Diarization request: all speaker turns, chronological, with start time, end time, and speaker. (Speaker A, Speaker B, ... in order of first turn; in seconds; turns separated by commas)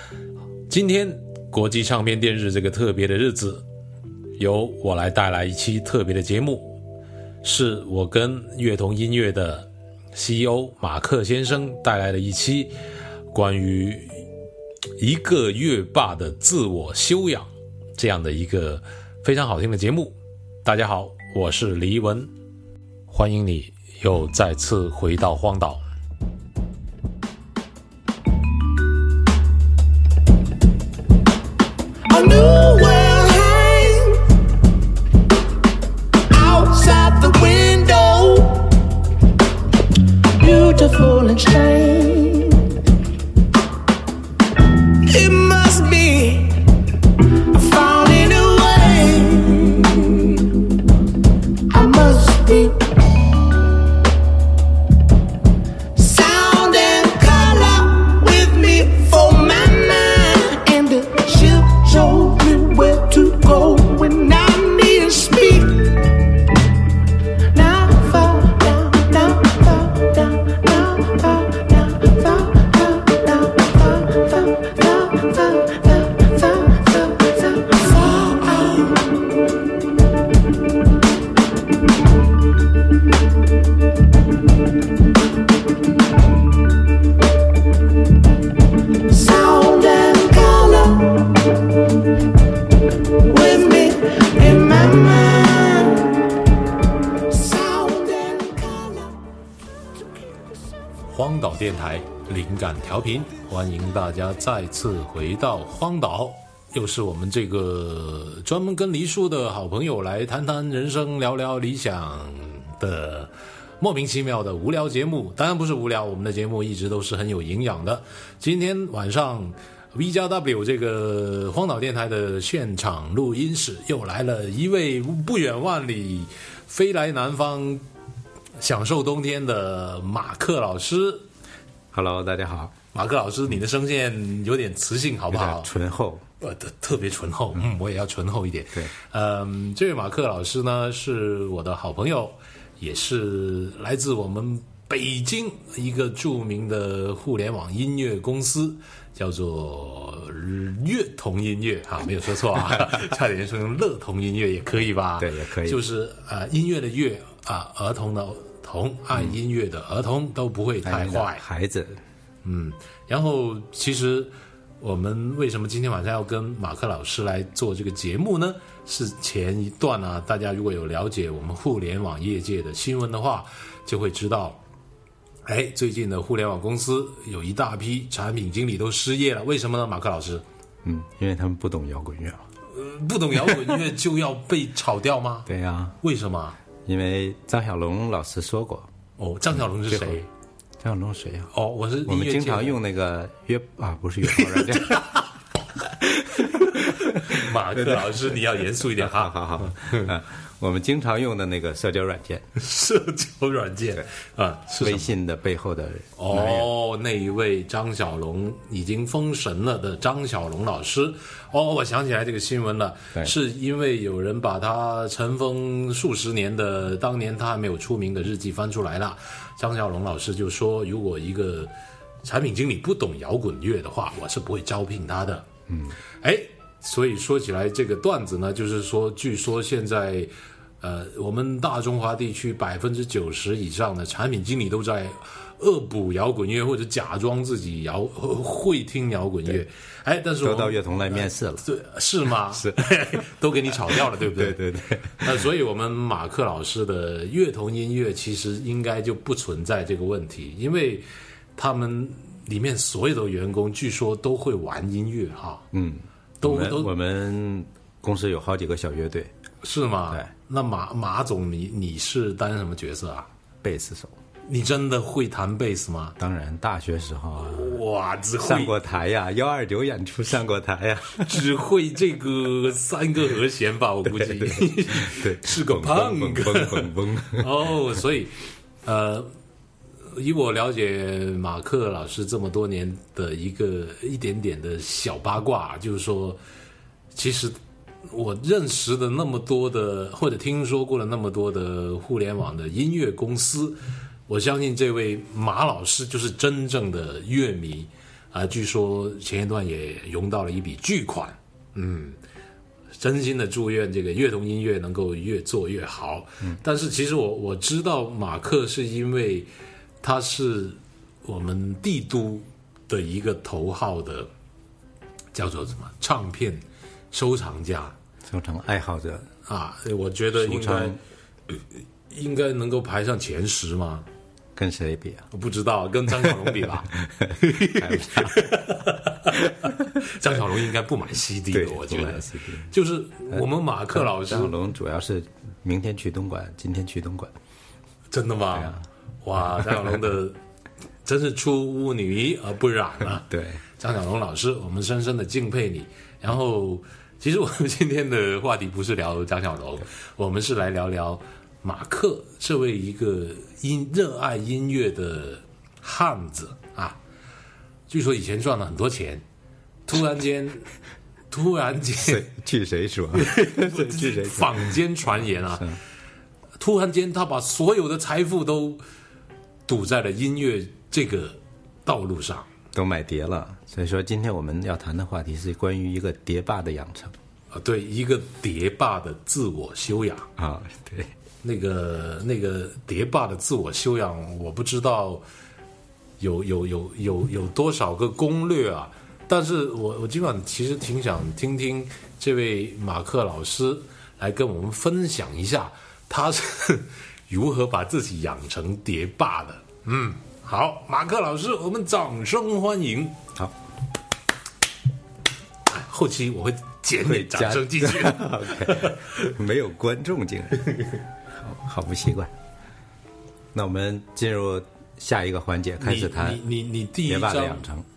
Speaker A: 0.7-3.6, Speaker A: 4.4-6.8, Speaker A: 7.4-12.7, Speaker A: 13.3-14.2, Speaker A: 15.0-22.3, Speaker A: 23.1-25.8, Speaker B: 32.1-34.2, Speaker B: 36.3-38.7, Speaker B: 40.4-42.7, Speaker B: 45.1-46.6, Speaker B: 47.5-50.5, Speaker B: 51.7-52.9, Speaker B: 56.0-66.0, Speaker B: 67.5-79.1, Speaker B: 89.1-91.3, Speaker B: 93.2-96.2, Speaker B: 97.3-99.1, Speaker A: 101.1-127.8, Speaker A: 128.6-131.2, Speaker C: 131.9-132.7, Speaker A: 132.9-135.7, Speaker C: 135.3-136.2, Speaker A: 136.4-161.4, Speaker C: 155.2-155.8, Speaker C: 160.8-162.0, Speaker A: 162.4-174.6, Speaker A: 175.4-180.4, Speaker C: 180.8-182.4, Speaker A: 182.7-185.5, Speaker C: 185.5-185.9, Speaker A: 186.0-186.6, Speaker C: 186.8-188.9, Speaker A: 189.2-190.3, Speaker C: 189.9-190.2, Speaker C: 190.8-191.5, Speaker A: 191.5-192.8, Speaker C: 192.0-195.1, Speaker A: 194.4-195.2, Speaker C: 196.1-198.1, Speaker A: 196.4-200.1, Speaker C: 198.9-202.4, Speaker A: 202.6-205.1, Speaker C: 204.8-206.7, Speaker A: 206.2-221.7, Speaker A: 222.2-225.5, Speaker C: 225.7-225.9, Speaker A: 226.2-244.6, Speaker C: 240.4-241.6, Speaker C: 242.5-242.8, Speaker C: 244.3-245.3, Speaker A: 245.1-255.6, Speaker C: 255.7-259.3, Speaker A: 256.4-256.9, Speaker A: 259.6-263.3, Speaker C: 263.6-264.1, Speaker A: 264.4-266.1, Speaker C: 266.2-267.8, Speaker A: 267.4-268.8, Speaker C: 268.4-271.4, Speaker A: 271.2-279.3, Speaker C: 274.1-277.5, Speaker A: 280.1-286.4, Speaker A: 287.1-302.2, Speaker A: 303.0-309.5, Speaker A: 310.0-314.3, Speaker A: 315.3-317.9, Speaker C: 318.3-319.3, Speaker A: 319.4-321.0, Speaker C: 320.4-321.0, Speaker A: 322.1-324.0, Speaker C: 324.6-325.2, Speaker A: 325.3-334.6, Speaker C: 327.1-328.4, Speaker C: 331.5-332.7, Speaker C: 333.9-337.3, Speaker A: 338.1-340.4, Speaker C: 338.5-338.8, Speaker A: 341.0-357.0, Speaker C: 343.3-343.6, Speaker A: 357.9-359.2, Speaker A: 359.9-360.7, Speaker A: 361.3-362.2, Speaker C: 362.0-364.7, Speaker A: 363.1-365.7, Speaker A: 366.6-368.8, Speaker A: 369.7-372.5, Speaker C: 372.7-377.1, Speaker A: 377.5-380.3, Speaker C: 380.4-381.1, Speaker A: 381.4-385.2, Speaker A: 386.2-403.2, Speaker A: 405.7-409.3, Speaker C: 407.0-410.7, Speaker C: 411.4-412.3, Speaker C: 413.5-416.4, Speaker A: 415.8-417.6, Speaker C: 417.1-417.9